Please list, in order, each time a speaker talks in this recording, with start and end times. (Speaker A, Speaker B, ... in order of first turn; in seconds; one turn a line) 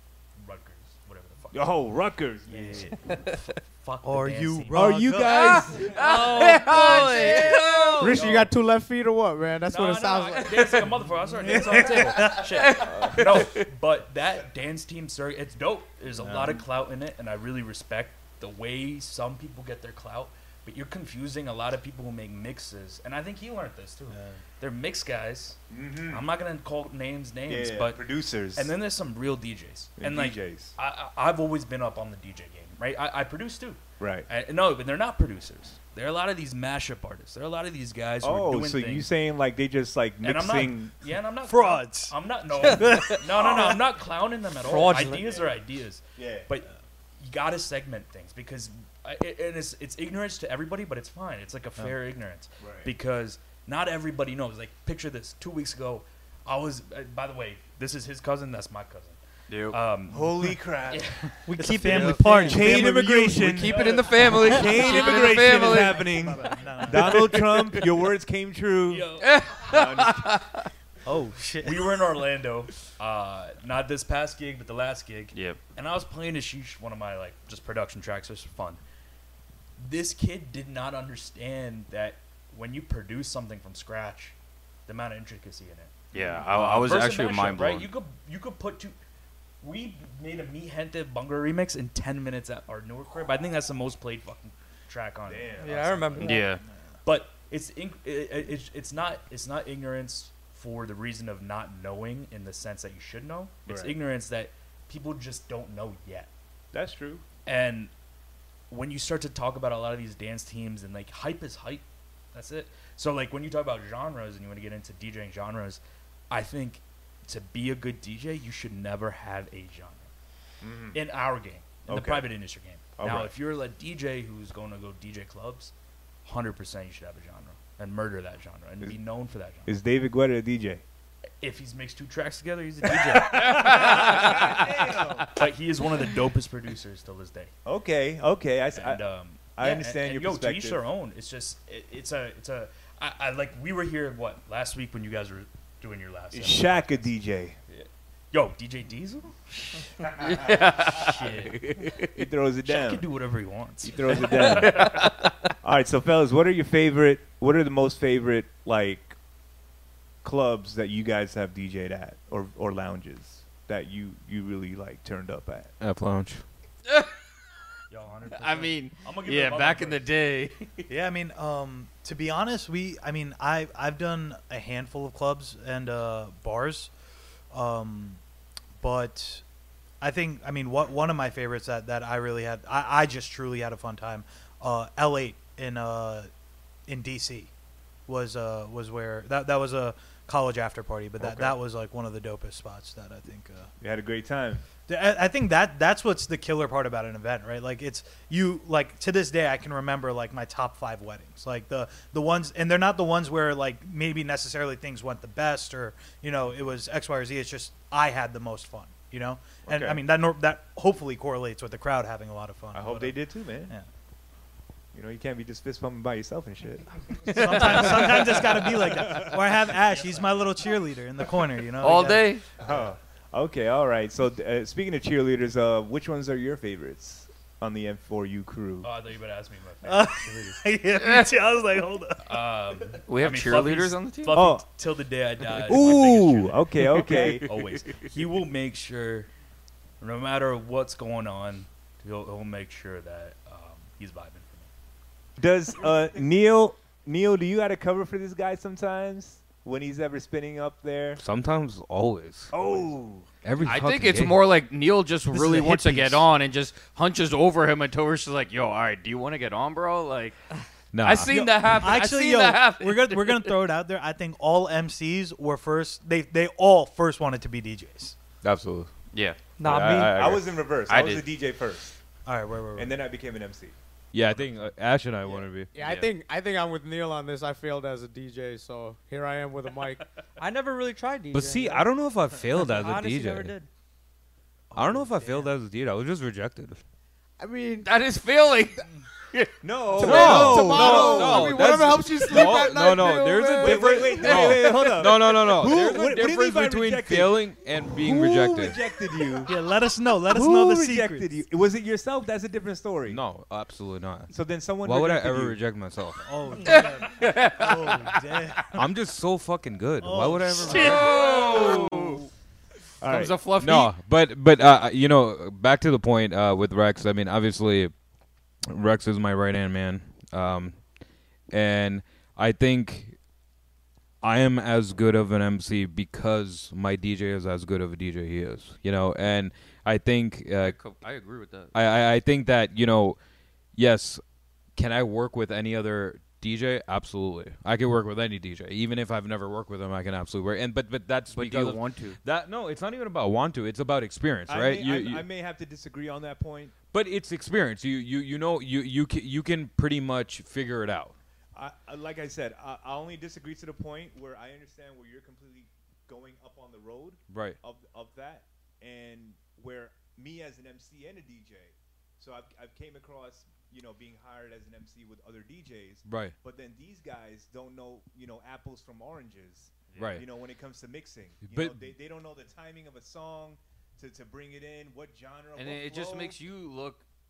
Speaker A: 0.4-1.8
Speaker B: 1.5-3.1
Speaker A: 2.5-8.5
Speaker C: 4.0-5.5
Speaker B: 4.7-6.2
Speaker D: 5.2-8.2
Speaker E: 5.9-8.2
Speaker F: 8.0-10.9
Speaker A: 9.7-39.1
Speaker C: 11.4-12.4
Speaker B: 11.5-12.0
Speaker D: 12.6-13.6
Speaker B: 12.8-13.5
Speaker B: 16.2-16.6
Speaker C: 24.1-24.4
Speaker B: 25.7-26.2
Speaker B: 27.5-28.7
Speaker B: 30.0-30.7
Speaker B: 34.0-34.3
Speaker B: 38.2-40.9
Speaker A: 40.2-59.2
Speaker C: 41.5-43.2
Speaker B: 43.4-43.8
Speaker E: 44.6-45.4
Speaker B: 45.0-45.5
Speaker B: 46.2-46.5
Speaker B: 52.6-52.9
Speaker D: 59.5-59.8
Speaker A: 59.7-61.3
Speaker B: 60.1-61.2
Speaker E: 61.5-63.0
Speaker C: 61.5-63.6
Speaker B: 62.0-69.1
Speaker D: 63.4-66.3
Speaker A: 63.6-64.8
Speaker C: 65.4-67.3
Speaker D: 67.0-67.8
Speaker A: 68.9-69.8
Speaker D: 69.2-70.7
Speaker B: 69.7-70.4
Speaker C: 71.1-71.8
Speaker A: 71.6-78.8
Speaker D: 75.3-75.6
Speaker A: 79.8-84.3
Speaker A: 84.9-88.9
Speaker D: 86.1-87.9
Speaker A: 89.6-96.4
Speaker B: 95.3-96.3
Speaker E: 95.6-96.5
Speaker D: 96.2-96.6
Speaker A: 97.0-106.3
Speaker B: 103.7-104.0
Speaker B: 106.7-107.2
Speaker A: 107.5-107.9
Speaker A: 108.7-120.1
Speaker B: 120.6-121.0
Speaker A: 120.9-125.7
Speaker B: 121.9-122.3
Speaker B: 123.0-123.3
Speaker A: 126.2-129.7
Speaker B: 129.7-130.8
Speaker A: 131.4-137.5
Speaker B: 132.9-135.3
Speaker D: 133.5-134.4
Speaker B: 137.7-139.0
Speaker A: 138.8-147.1
Speaker B: 139.6-140.8
Speaker B: 146.3-147.6
Speaker A: 147.7-149.4
Speaker D: 150.0-152.2
Speaker A: 150.2-151.8
Speaker B: 152.1-153.0
Speaker A: 152.6-155.1
Speaker B: 153.8-155.0
Speaker D: 154.4-155.5
Speaker B: 155.6-159.2
Speaker B: 160.2-165.7
Speaker G: 165.8-166.4
Speaker D: 166.9-167.3
Speaker A: 167.9-170.0
Speaker D: 168.3-170.8
Speaker C: 170.9-176.9
Speaker C: 177.5-178.2
Speaker C: 178.8-179.4
Speaker C: 180.0-186.3
Speaker C: 186.9-187.5
Speaker C: 188.1-193.7
Speaker B: 191.2-191.6
Speaker B: 193.8-194.7
Speaker C: 194.9-213.9
Speaker B: 209.7-210.0
Speaker B: 212.7-213.7
Speaker B: 214.9-219.5
Speaker C: 217.2-222.3
Speaker A: 219.7-220.7
Speaker D: 221.8-222.5
Speaker B: 222.6-228.9
Speaker A: 228.8-230.6
Speaker C: 229.8-232.3
Speaker D: 231.0-231.3
Speaker A: 232.2-239.3
Speaker D: 233.1-234.4
Speaker B: 234.3-234.7
Speaker B: 235.7-237.5
Speaker D: 236.9-238.1
Speaker A: 240.0-244.7
Speaker B: 245.4-251.2
Speaker G: 251.2-252.5
Speaker B: 252.5-253.3
Speaker G: 253.4-254.4
Speaker D: 253.6-260.4
Speaker C: 255.3-256.2
Speaker G: 260.9-261.4
Speaker D: 261.0-263.5
Speaker C: 261.3-268.2
Speaker G: 268.4-268.9
Speaker D: 269.1-269.5
Speaker E: 269.6-270.1
Speaker G: 269.6-270.7
Speaker B: 270.1-271.9
Speaker D: 270.9-271.3
Speaker C: 272.3-273.0
Speaker B: 272.8-273.8
Speaker G: 274.1-275.7
Speaker F: 275.7-280.1
Speaker D: 275.8-276.1
Speaker E: 280.4-281.9
Speaker G: 281.3-283.6
Speaker E: 282.5-283.7
Speaker C: 284.7-285.5
Speaker G: 284.7-286.8
Speaker F: 287.4-287.9
Speaker D: 287.8-289.5
Speaker B: 289.6-291.6
Speaker F: 289.9-294.4
Speaker G: 290.0-298.8
Speaker D: 292.1-292.5
Speaker B: 293.6-299.6
Speaker D: 294.2-295.0
Speaker C: 299.5-301.4
Speaker B: 300.3-303.2
Speaker G: 303.1-304.3
Speaker B: 304.3-305.6
Speaker G: 304.8-306.3
Speaker C: 306.2-308.9
Speaker D: 306.6-308.4
Speaker G: 308.7-311.3
Speaker C: 310.0-310.9
Speaker D: 310.6-312.3
Speaker B: 310.7-312.2
Speaker B: 313.0-313.4
Speaker D: 313.0-314.0
Speaker G: 313.5-317.9
Speaker G: 318.7-320.8
Speaker G: 321.5-323.2
Speaker G: 324.2-330.8
Speaker D: 330.6-331.8
Speaker G: 331.7-333.2
Speaker G: 333.8-334.2
Speaker G: 334.8-345.3
Speaker D: 341.3-342.2
Speaker B: 344.5-346.8
Speaker G: 346.9-351.1
Speaker B: 351.6-376.4
Speaker G: 357.3-357.6
Speaker G: 366.1-366.4
Speaker D: 369.9-370.2
Speaker G: 370.0-370.2
Speaker G: 371.4-371.8
Speaker D: 375.6-377.0